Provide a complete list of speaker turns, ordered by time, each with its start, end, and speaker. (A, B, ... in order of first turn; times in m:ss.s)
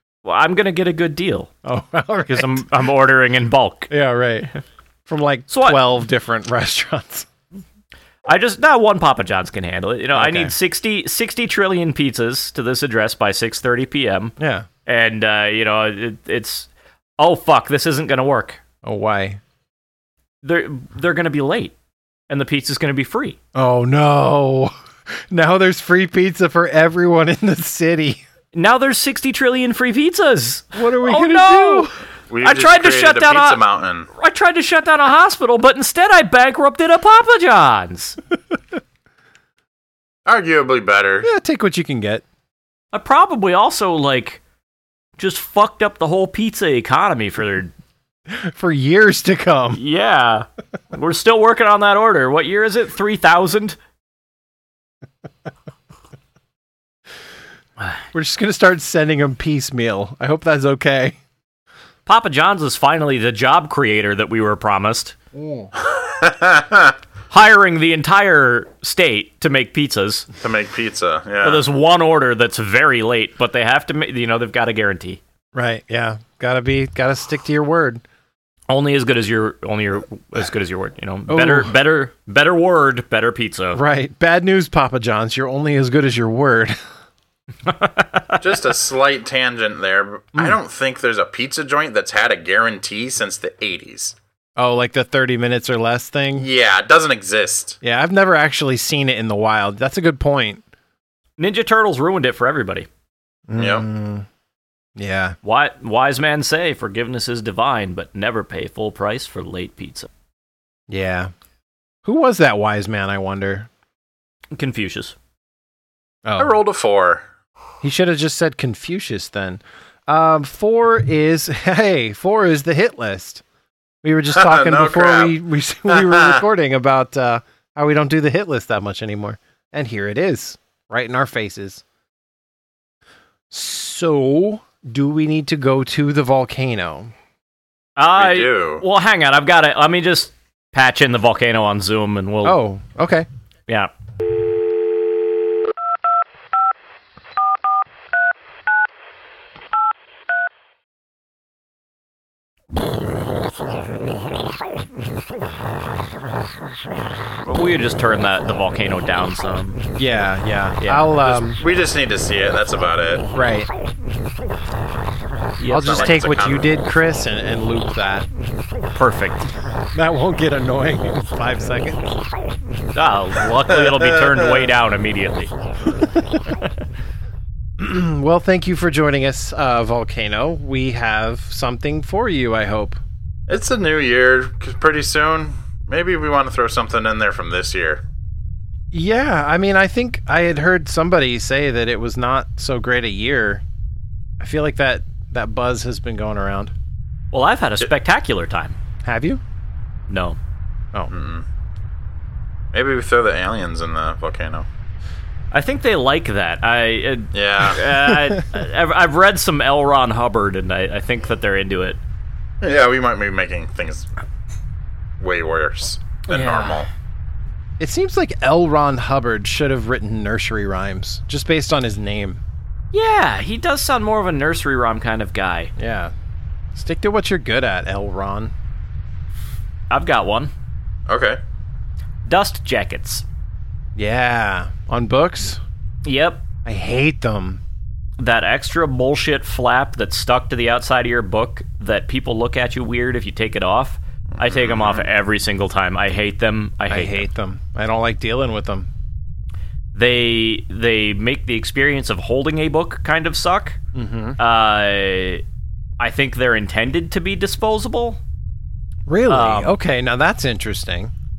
0:00.2-0:01.5 A
0:01.6-0:02.6 B
0:02.3-0:03.9 A
0:03.9-0:04.5 B
0:05.1-0:07.3 B
0:05.5-0:05.8 A
0:08.3-0:14.4 A
0:10.1-0:10.5 B
0:14.4-0:14.7 B
0:14.9-0:18.6 A
0:18.8-0:19.4 B
0:20.4-0:21.8 A
0:22.3-0:23.4 A
0:23.6-0:24.7 B
0:25.3-0:28.2 B
0:28.5-0:31.9 A
0:30.7-0:31.9 B
0:32.3-0:34.1 C
0:32.4-0:33.6 A
0:34.1-0:38.2 A
0:40.3-0:41.3 C
0:41.2-0:42.2 B
0:42.9-0:44.4 A
0:45.2-0:47.7 A
0:48.3-0:49.8 B
0:49.7-0:53.8 A
0:58.1-1:01.2 B
1:02.1-1:05.2 A
1:05.4-1:05.7 B
1:05.8-1:07.0 C
1:07.3-1:10.3 A
1:10.4-1:11.6 C
1:11.4-1:15.2 A
1:15.5-1:18.0 B
1:18.7-1:23.8 A
1:21.3-1:21.7 B
1:23.7-1:26.8 B
1:27.6-1:28.4 A
1:28.4-1:34.2 C
1:34.6-1:36.5 B
1:36.4-1:37.8 C
1:37.8-1:40.6 B
1:41.4-1:42.9 A
1:43.5-1:44.3 B
1:43.6-1:43.9 C
1:45.0-1:45.4 B
1:45.4-1:50.1 A
1:50.9-1:51.3 B
1:52.0-1:53.7 B
1:54.6-1:55.2 A
1:56.2-1:56.6 B
1:56.4-1:57.2 C
1:57.8-2:03.4 B
2:04.0-2:11.8 B
2:04.3-2:05.4 C
2:05.9-2:06.4 C
2:13.5-2:17.1 B
2:18.0-2:22.6 A
2:18.1-2:18.8 C
2:22.4-2:23.3 B
2:37.5-2:39.8 A
2:40.0-2:41.6 B
2:40.8-2:41.1 A
2:41.2-2:43.3 C
2:43.3-2:43.7 B
2:45.6-2:46.2 A
2:45.7-2:48.3 B
2:45.8-2:46.7 C
2:49.0-2:49.5 A
2:49.9-2:52.1 B
2:52.9-2:55.5 A
2:53.8-2:54.7 C
2:57.8-3:03.0 B
3:03.5-3:08.0 C
3:08.9-3:13.6 B
3:14.4-3:16.7 B
3:17.3-3:18.8 A
3:19.0-3:19.4 B
3:20.1-3:20.4 A
3:21.1-3:21.4 C
3:22.7-3:24.7 C
3:25.5-3:32.0 A
3:27.3-3:27.8 C
3:28.1-3:28.4 B
3:32.6-3:34.1 C
3:35.2-3:36.9 C
3:36.3-3:36.9 A
3:37.8-3:42.4 B
3:42.9-3:45.7 A
3:45.8-3:46.1 B
3:46.7-3:48.5 B
3:49.9-3:50.5 A
3:51.1-3:51.4 C
3:52.3-3:53.2 A
3:54.0-3:55.6 B
3:56.0-3:56.4 A
3:56.6-3:57.6 B
3:58.2-4:07.3 A
4:04.4-4:05.1 C
4:06.9-4:08.9 B
4:10.0-4:13.8 A
4:13.9-4:14.4 B
4:14.4-4:15.4 A
4:16.0-4:18.2 A
4:19.1-4:21.1 B
4:19.3-4:19.8 A